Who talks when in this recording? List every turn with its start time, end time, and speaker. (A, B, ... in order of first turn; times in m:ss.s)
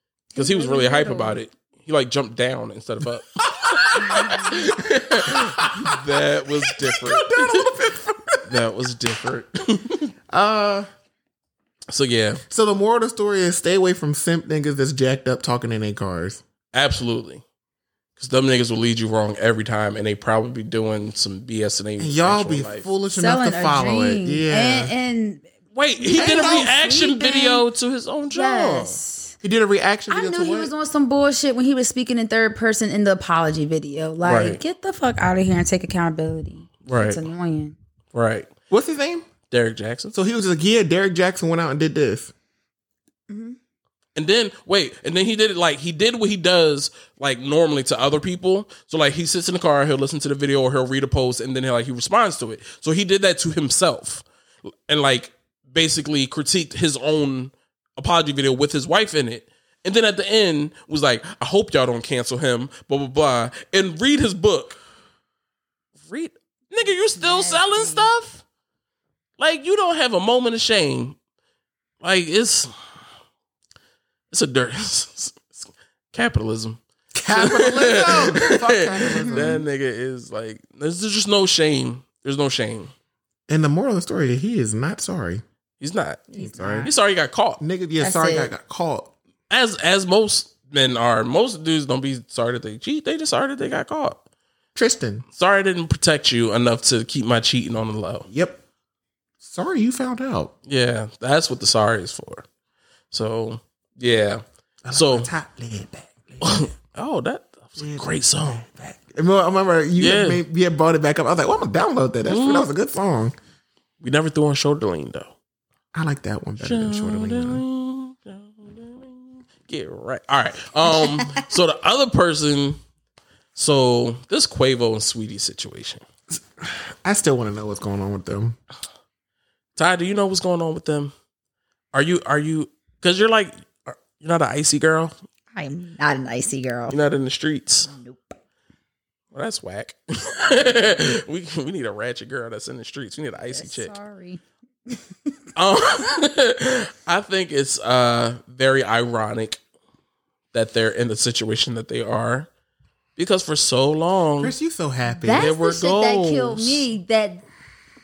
0:00.3-0:01.4 A
0:00.4-0:07.7 B
0:03.4-0:08.6 C
0:04.0-0:04.7 A
0:08.5-0:10.1 B
0:10.3-0:10.9 C
0:11.9-0:12.4 B
0:12.5-0:16.4 C
0:16.7-0:17.4 B
0:18.2-0:22.9 B
0:22.0-0:24.9 C
0:23.1-0:27.6 A
0:25.8-0:29.0 B
0:26.1-0:26.7 C
0:28.3-0:29.4 A
0:29.4-0:30.7 C
0:30.1-0:37.8 A
0:34.2-0:34.6 B
0:36.9-0:37.2 B
0:38.1-0:38.5 B
0:38.7-0:39.3 C
0:39.5-0:40.1 B
0:40.1-0:42.3 C
0:43.3-0:43.6 A
0:44.2-0:54.2 B
0:54.9-1:04.8 B
1:06.0-1:08.4 B
1:06.8-1:08.1 A
1:09.4-1:11.2 B
1:12.0-1:12.7 B
1:14.3-1:16.8 B
1:17.1-1:19.6 C
1:17.3-1:22.9 B
1:23.5-1:25.4 C
1:25.8-1:27.6 B
1:26.4-1:26.9 C
1:26.6-1:26.8 A
1:27.6-1:29.1 C
1:28.0-1:28.5 A
1:29.5-1:34.2 B
1:34.8-1:35.2 C
1:35.4-1:38.3 B
1:38.3-1:38.6 C
1:39.4-1:40.5 C
1:40.7-1:42.4 B
1:43.1-1:45.3 B
1:44.8-1:46.7 C
1:46.4-1:48.6 B
1:47.8-1:53.4 C
1:50.0-1:50.4 B
1:52.2-1:52.7 B
1:54.0-1:55.3 B
1:55.9-1:57.6 C
1:56.6-2:02.8 B
2:03.6-2:06.0 B
2:06.6-2:08.6 C
2:09.8-2:11.1 B
2:11.9-2:15.1 B
2:15.5-2:17.0 A
2:16.9-2:17.9 B
2:17.9-2:18.4 A
2:19.3-2:23.9 B
2:23.5-2:25.3 A
2:25.6-2:29.6 B
2:30.5-2:32.5 B
2:33.2-2:34.5 B
2:34.4-2:35.6 C
2:35.3-2:37.4 A
2:35.3-2:36.8 B